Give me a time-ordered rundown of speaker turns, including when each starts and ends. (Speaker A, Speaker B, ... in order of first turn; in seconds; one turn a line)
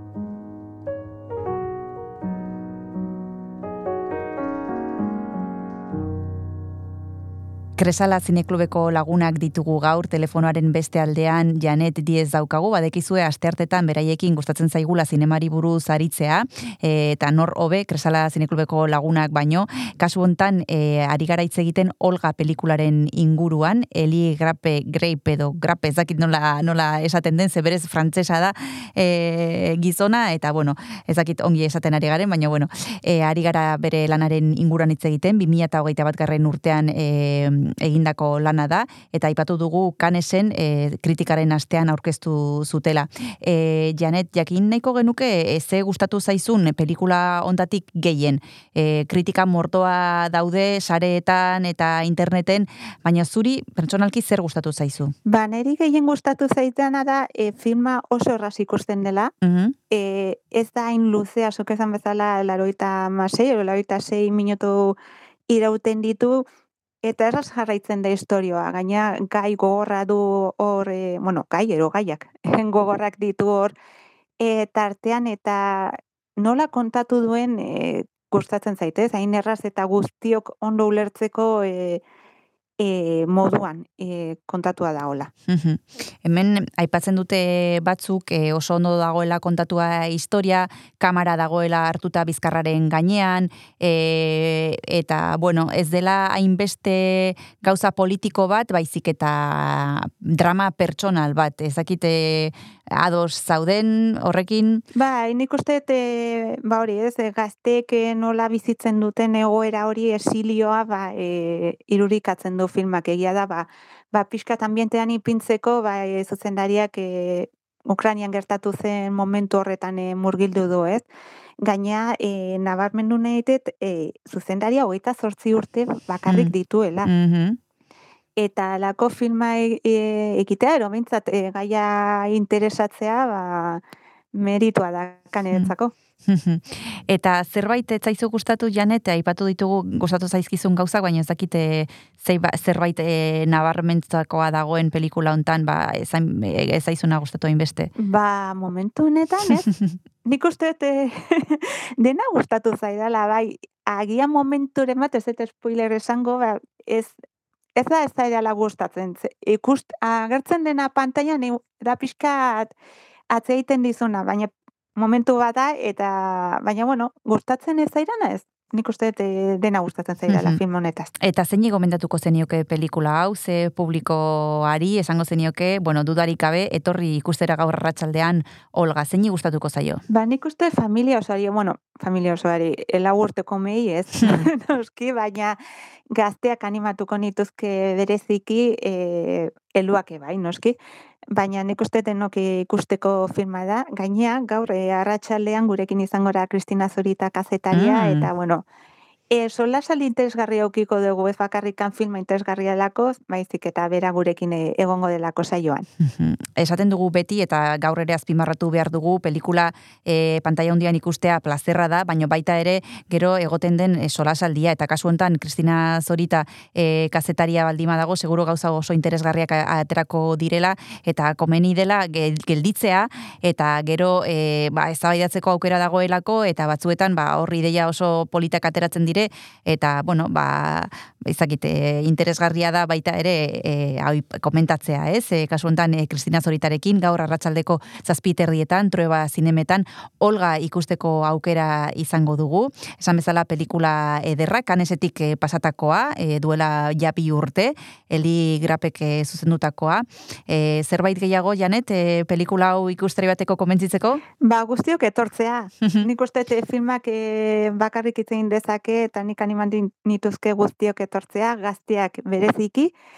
Speaker A: 7.8-55.1
Speaker B: 55.3-59.3
Speaker A: 59.4-59.8
Speaker B: 59.9-65.0
Speaker B: 65.5-66.5
Speaker B: 67.0-73.7
Speaker B: 74.4-82.0
Speaker B: 82.8-85.3
Speaker A: 85.5-104.8
Speaker B: 105.0-121.0
Speaker B: 121.6-127.1
Speaker A: 126.3-126.5
Speaker A: 127.0-127.6
Speaker B: 128.4-133.8
Speaker B: 134.3-135.9
Speaker A: 136.3-147.9
Speaker B: 148.0-149.7
Speaker B: 150.2-157.1
Speaker B: 157.8-162.7
Speaker B: 163.3-171.1
Speaker A: 170.3-170.6
Speaker A: 171.2-180.0
Speaker B: 180.1-185.6
Speaker B: 186.1-190.8
Speaker B: 191.3-198.7
Speaker A: 197.7-198.3
Speaker B: 199.3-205.9
Speaker A: 206.0-254.2
Speaker B: 254.4-262.9